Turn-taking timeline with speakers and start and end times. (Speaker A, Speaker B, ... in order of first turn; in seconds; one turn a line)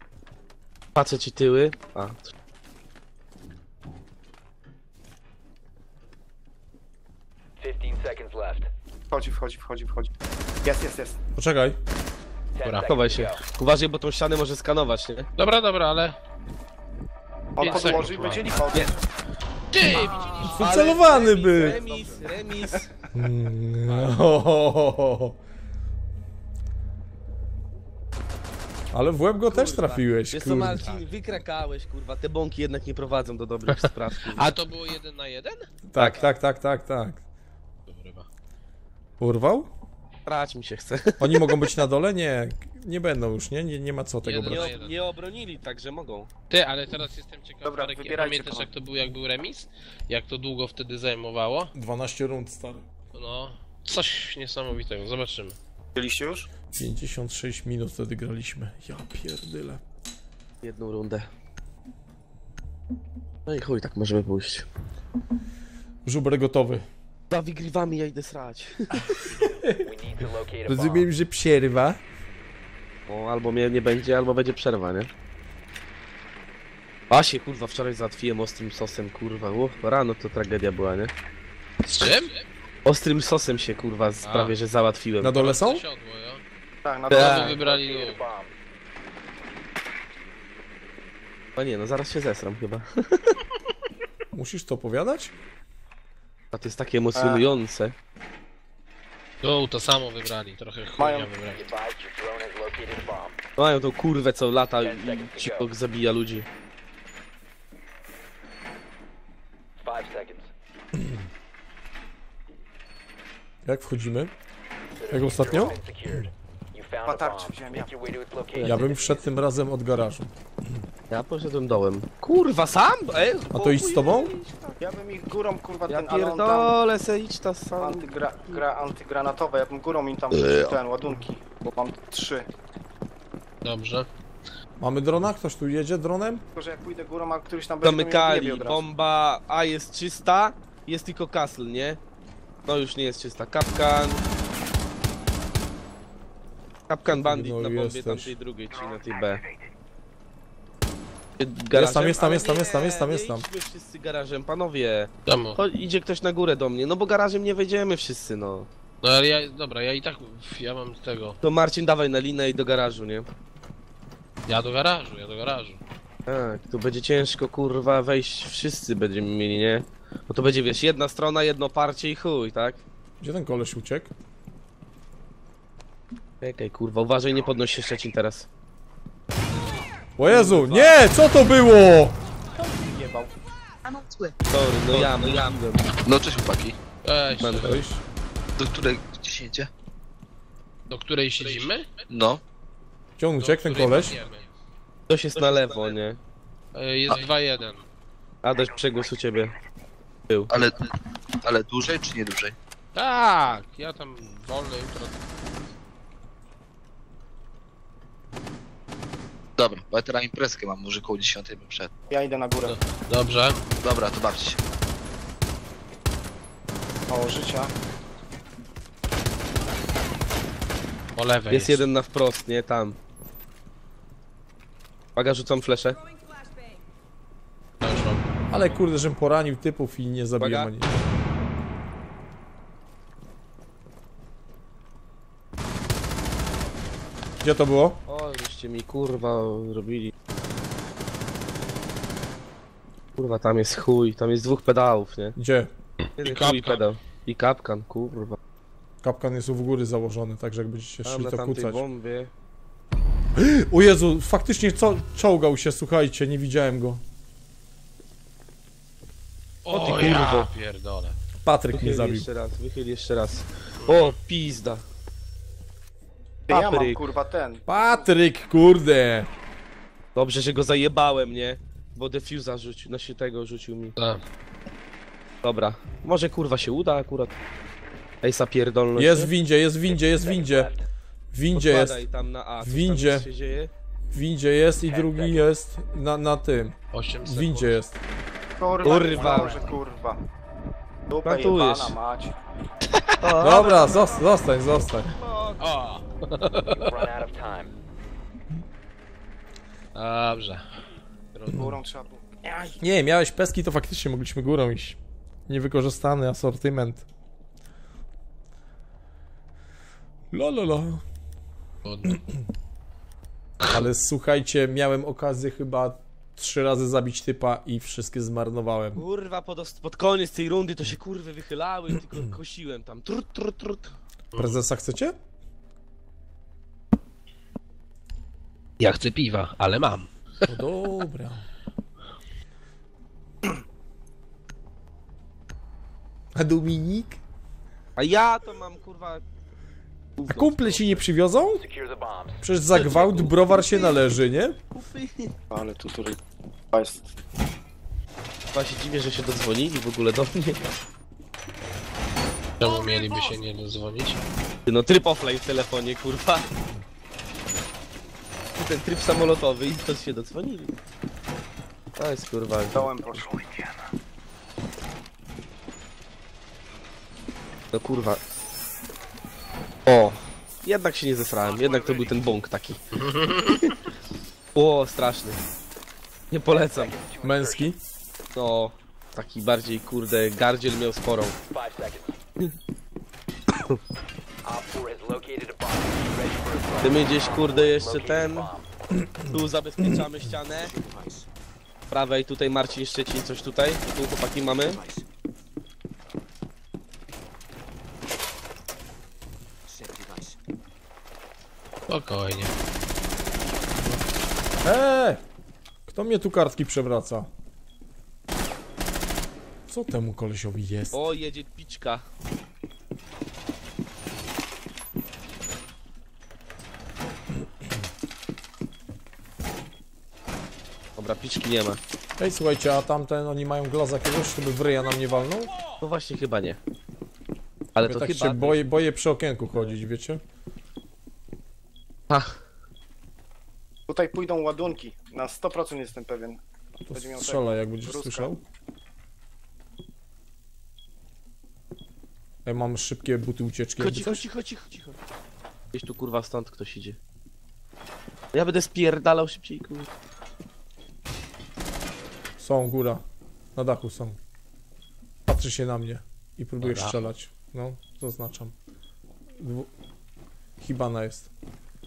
Speaker A: 0.9-2.3
Speaker B: 7.6-8.7
Speaker C: 9.1-10.1
Speaker C: 10.6-11.2
Speaker D: 11.4-11.8
Speaker B: 12.6-13.4
Speaker E: 12.6-12.9
Speaker A: 12.8-15.3
Speaker E: 15.4-16.2
Speaker C: 17.6-19.0
Speaker E: 17.6-18.9
Speaker E: 19.7-20.7
Speaker C: 20.3-22.8
Speaker A: 20.4-22.9
Speaker D: 20.5-21.8
Speaker D: 23.1-25.4
Speaker E: 23.9-24.2
Speaker D: 28.9-30.9
Speaker A: 29.5-34.6
Speaker E: 30.8-31.3
Speaker E: 33.7-35.7
Speaker D: 35.9-37.2
Speaker A: 36.0-36.3
Speaker E: 37.9-38.3
Speaker D: 39.2-39.7
Speaker A: 40.3-41.7
Speaker D: 41.2-44.7
Speaker E: 44.2-45.0
Speaker A: 44.5-46.3
Speaker E: 46.5-51.7
Speaker C: 47.6-48.7
Speaker D: 51.7-52.9
Speaker E: 53.1-55.6
Speaker C: 56.0-56.5
Speaker D: 56.7-59.8
Speaker A: 60.6-61.3
Speaker A: 63.5-64.7
Speaker D: 66.0-66.8
Speaker A: 67.3-69.0
Speaker D: 69.6-69.9
Speaker B: 69.8-71.1
Speaker D: 70.7-72.0
Speaker A: 73.1-75.1
Speaker A: 77.1-81.1
Speaker E: 81.8-82.4
Speaker A: 82.8-85.3
Speaker E: 84.2-84.5
Speaker D: 85.2-85.8
Speaker E: 85.3-86.4
Speaker C: 86.8-87.6
Speaker E: 87.1-88.2
Speaker A: 87.1-87.6
Speaker B: 87.5-88.5
Speaker A: 91.6-93.3
Speaker D: 94.3-95.3
Speaker A: 96.5-97.9
Speaker C: 97.2-97.5
Speaker E: 99.4-101.6
Speaker C: 101.0-101.3
Speaker B: 101.5-103.4
Speaker A: 103.6-106.5
Speaker B: 104.8-105.7
Speaker B: 109.8-110.5
Speaker D: 113.7-114.3
Speaker B: 115.0-119.2
Speaker D: 115.1-115.8
Speaker C: 117.0-117.9
Speaker A: 118.6-119.1
Speaker D: 118.6-120.8
Speaker A: 121.1-124.8
Speaker D: 123.5-124.3
Speaker C: 124.8-126.8
Speaker A: 125.9-128.6
Speaker C: 127.8-132.5
Speaker F: 130.4-130.8
Speaker E: 133.6-134.1
Speaker D: 134.8-136.4
Speaker C: 136.6-138.8
Speaker A: 137.8-142.0
Speaker A: 142.7-144.2
Speaker A: 146.9-149.4
Speaker D: 147.1-148.3
Speaker A: 151.4-158.7
Speaker D: 151.7-153.5
Speaker E: 155.3-155.6
Speaker E: 159.0-161.4
Speaker A: 161.4-163.3
Speaker E: 164.5-165.8
Speaker A: 166.3-172.8
Speaker D: 173.2-174.1
Speaker A: 176.4-178.5
Speaker D: 180.2-182.2
Speaker A: 180.3-181.0
Speaker C: 182.6-183.3
Speaker F: 183.9-184.3
Speaker A: 184.5-185.9
Speaker F: 184.9-185.5
Speaker F: 186.0-186.8
Speaker E: 187.0-187.8
Speaker A: 187.4-187.8
Speaker D: 187.5-188.0
Speaker F: 188.6-189.7
Speaker E: 190.9-191.9
Speaker F: 192.1-192.4
Speaker D: 193.2-194.2
Speaker E: 193.4-194.5
Speaker A: 195.1-196.2
Speaker E: 196.7-197.9
Speaker A: 198.4-199.5
Speaker F: 200.5-202.6
Speaker E: 202.9-205.2
Speaker F: 209.6-211.9
Speaker C: 212.1-212.8
Speaker E: 212.7-213.6
Speaker F: 213.8-214.6
Speaker C: 217.1-217.7
Speaker E: 221.2-221.8
Speaker A: 221.5-223.0
Speaker A: 225.2-226.0
Speaker E: 227.8-228.3
Speaker D: 228.5-231.0
Speaker A: 230.4-230.7
Speaker D: 237.4-238.0
Speaker A: 238.1-240.1
Speaker A: 243.2-245.4
Speaker D: 245.4-245.7
Speaker A: 246.2-248.4
Speaker E: 246.2-246.9
Speaker D: 249.0-251.8
Speaker A: 251.1-252.3
Speaker D: 253.3-257.0
Speaker E: 259.6-261.2
Speaker A: 259.7-260.4
Speaker D: 260.1-260.4
Speaker D: 261.4-262.3
Speaker A: 261.7-264.8
Speaker E: 263.8-264.1
Speaker C: 266.5-267.7
Speaker A: 266.5-267.0
Speaker D: 267.7-269.3
Speaker A: 270.1-273.9
Speaker E: 274.0-274.2
Speaker A: 275.4-277.4
Speaker A: 278.2-279.3
Speaker D: 278.9-280.7
Speaker B: 279.9-280.9
Speaker D: 281.3-282.1
Speaker A: 281.5-283.7
Speaker D: 282.6-283.3
Speaker D: 284.1-288.0
Speaker B: 284.8-285.4
Speaker E: 286.9-287.8
Speaker C: 288.6-290.2
Speaker A: 288.8-289.6
Speaker C: 291.1-292.3
Speaker A: 291.2-292.0
Speaker A: 293.2-294.4
Speaker D: 293.4-295.1
Speaker A: 295.1-295.7
Speaker E: 295.6-297.1
Speaker B: 296.8-297.7
Speaker E: 299.9-300.7
Speaker E: 301.3-301.7
Speaker C: 301.5-302.8
Speaker D: 302.8-307.1
Speaker D: 310.3-311.0
Speaker E: 311.9-312.2
Speaker D: 313.7-319.1
Speaker A: 319.0-323.9
Speaker E: 324.3-324.6
Speaker D: 324.4-325.2
Speaker E: 328.8-330.5
Speaker D: 330.5-331.5
Speaker D: 336.4-337.2
Speaker A: 338.0-339.2
Speaker A: 340.2-341.0
Speaker D: 340.3-341.6
Speaker B: 341.5-342.4
Speaker D: 342.4-344.6
Speaker A: 342.7-344.1
Speaker A: 344.7-345.3
Speaker C: 345.5-346.2
Speaker C: 346.7-347.1
Speaker A: 348.5-350.7
Speaker E: 352.6-354.2
Speaker A: 354.7-356.5
Speaker A: 358.6-360.7
Speaker A: 362.0-363.1
Speaker C: 362.7-363.3
Speaker A: 367.7-368.2
Speaker A: 369.9-372.8
Speaker E: 373.0-373.7
Speaker A: 374.6-375.4
Speaker A: 376.3-376.9
Speaker B: 376.5-377.7
Speaker D: 377.2-377.8
Speaker A: 378.4-381.4
Speaker B: 381.5-382.2
Speaker B: 384.4-388.7
Speaker A: 386.8-388.5
Speaker D: 388.9-390.1
Speaker A: 389.3-390.8
Speaker A: 391.9-394.8
Speaker E: 401.9-402.5
Speaker D: 404.6-405.2
Speaker D: 405.9-407.3
Speaker D: 409.7-411.0
Speaker A: 410.9-412.1
Speaker A: 421.0-421.8
Speaker D: 422.2-425.5
Speaker A: 425.8-426.6
Speaker A: 427.8-428.7
Speaker D: 427.8-430.2
Speaker A: 432.1-432.4
Speaker C: 433.9-436.4
Speaker D: 436.8-438.4
Speaker C: 436.9-438.3
Speaker D: 442.4-444.3
Speaker A: 443.8-445.0
Speaker A: 445.7-447.0
Speaker A: 448.3-449.9
Speaker D: 452.4-453.0
Speaker D: 453.6-454.2
Speaker D: 455.3-458.5
Speaker E: 456.6-457.1
Speaker D: 459.4-459.7
Speaker D: 460.6-461.3